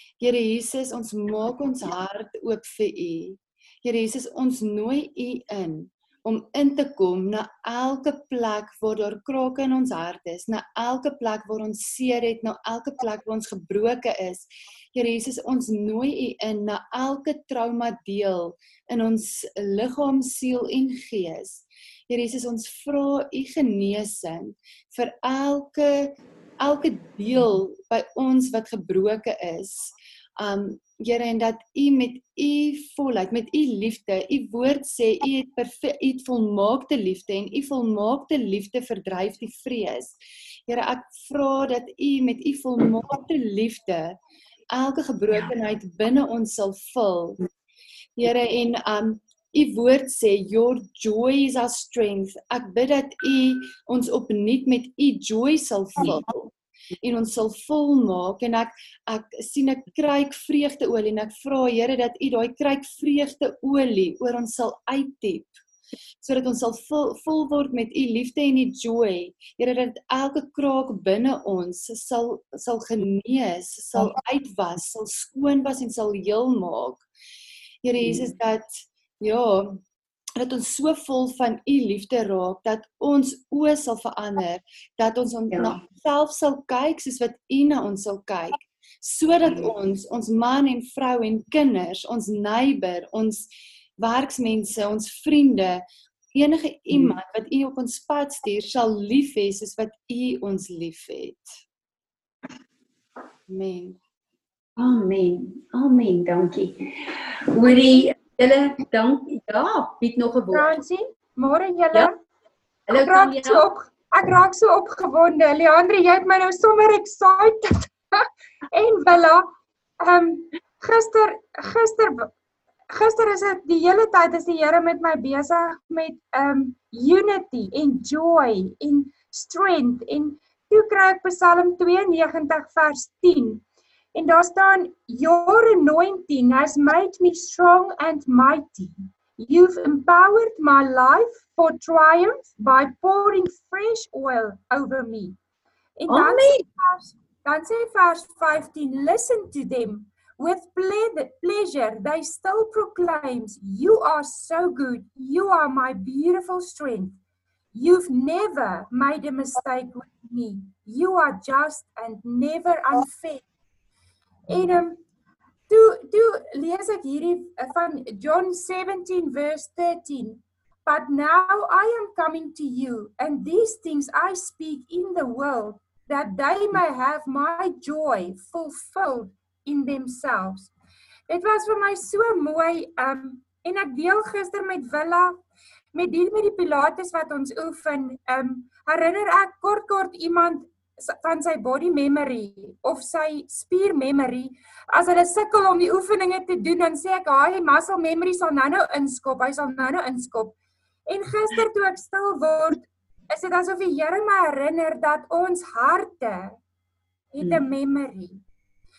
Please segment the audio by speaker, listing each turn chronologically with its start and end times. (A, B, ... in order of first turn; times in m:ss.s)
0:00.2-0:40.2 A
0:40.7-0:44.2 A
0:44.7-0:47.5 A
0:48.2-1:05.6 A
1:06.2-1:17.1 A
1:17.8-1:19.8 A
1:18.0-1:18.3 B
1:20.4-1:33.4 A
1:25.5-1:25.8 B
1:29.4-1:29.7 B
1:34.0-1:35.8 A
1:36.3-1:41.4 A
1:43.5-1:44.0 A
1:44.8-1:50.6 B
1:50.5-1:52.1 C
1:52.9-1:53.6 B
1:52.9-2:02.3 C
2:02.9-2:13.6 C
2:14.1-2:25.4 C
2:26.0-2:37.2 C
2:26.1-2:26.6 B
2:37.7-2:43.4 C
2:44.5-2:45.0 C
2:45.7-3:00.7 C
3:01.3-3:05.4 C
3:05.9-3:20.6 C
3:21.1-3:26.6 C
3:27.3-3:28.4 C